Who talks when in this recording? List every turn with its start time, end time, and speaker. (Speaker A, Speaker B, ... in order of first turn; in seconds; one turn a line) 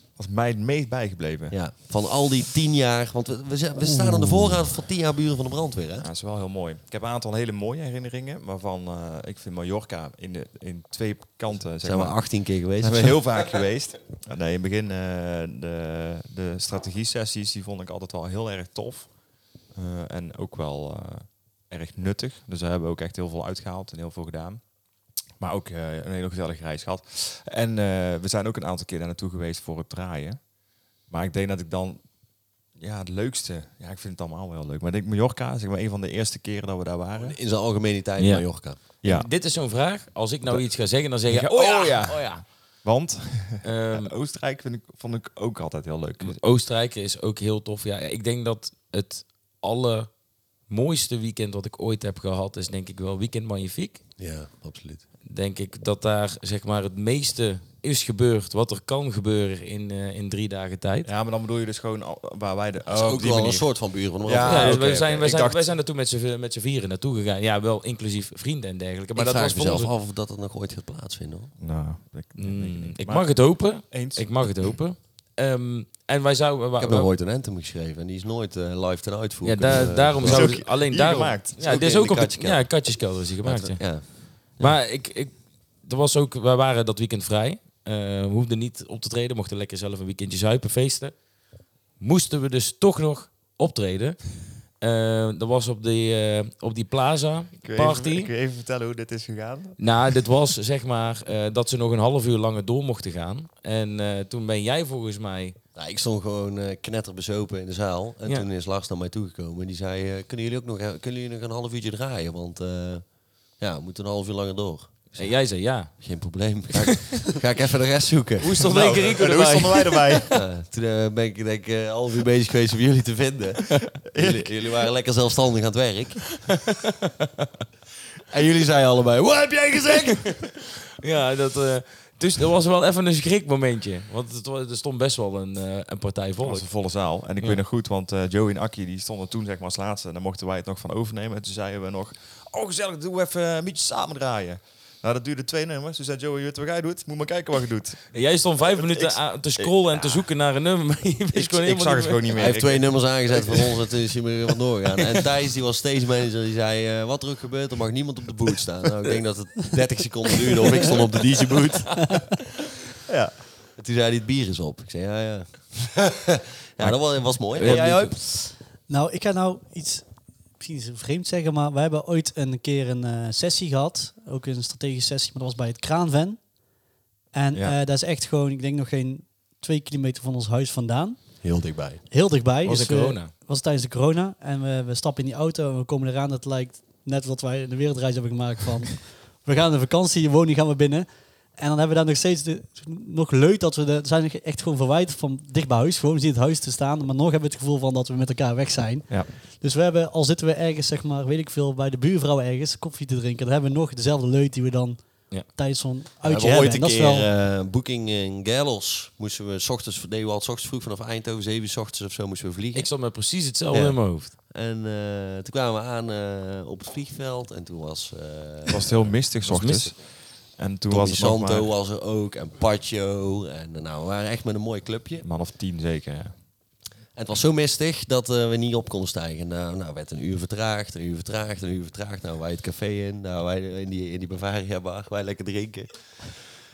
Speaker A: 0.2-1.6
Speaker B: 1.5-6.1
Speaker A: 4.1-4.6
Speaker A: 6.0-19.1
Speaker B: 11.8-13.2
Speaker A: 19.7-24.6
Speaker A: 25.4-30.4
Speaker A: 31.1-32.0
Speaker A: 32.8-37.4
Speaker B: 37.2-38.8
Speaker C: 38.2-42.4
Speaker A: 39.0-39.3
Speaker A: 40.5-46.4
Speaker C: 43.6-44.1
Speaker C: 46.2-54.0
Speaker B: 54.2-55.0
Speaker C: 55.2-61.1
Speaker A: 61.1-65.7
Speaker B: 62.9-64.8
Speaker C: 64.4-69.9
Speaker B: 69.2-71.5
Speaker A: 71.6-74.8
Speaker C: 72.4-77.1
Speaker B: 76.8-80.7
Speaker C: 79.4-91.2
Speaker A: 80.2-81.5
Speaker B: 81.6-84.8
Speaker C: 92.0-98.3
Speaker A: 97.6-99.8
Speaker C: 99.8-105.6
Speaker B: 105.8-118.6
Speaker C: 115.1-117.2
Speaker C: 118.4-120.2
Speaker A: 118.7-120.4
Speaker B: 120.3-126.3
Speaker A: 124.1-124.5
Speaker B: 128.3-130.4
Speaker C: 131.0-136.7
Speaker A: 136.4-148.2
Speaker C: 148.1-152.6
Speaker A: 148.7-150.2
Speaker A: 151.3-153.6
Speaker B: 152.3-162.2
Speaker A: 163.1-163.3
Speaker B: 163.8-168.2
Speaker C: 167.5-168.1
Speaker D: 168.2-176.6
Speaker D: 177.3-207.3
Speaker B: 181.4-182.0
Speaker C: 182.6-183.3
Speaker B: 206.2-213.2
Speaker C: 212.8-214.3
Speaker B: 213.7-219.1
Speaker A: 218.7-221.7
Speaker C: 219.4-219.9
Speaker B: 220.9-225.3
Speaker A: 225.2-226.4
Speaker B: 227.1-236.4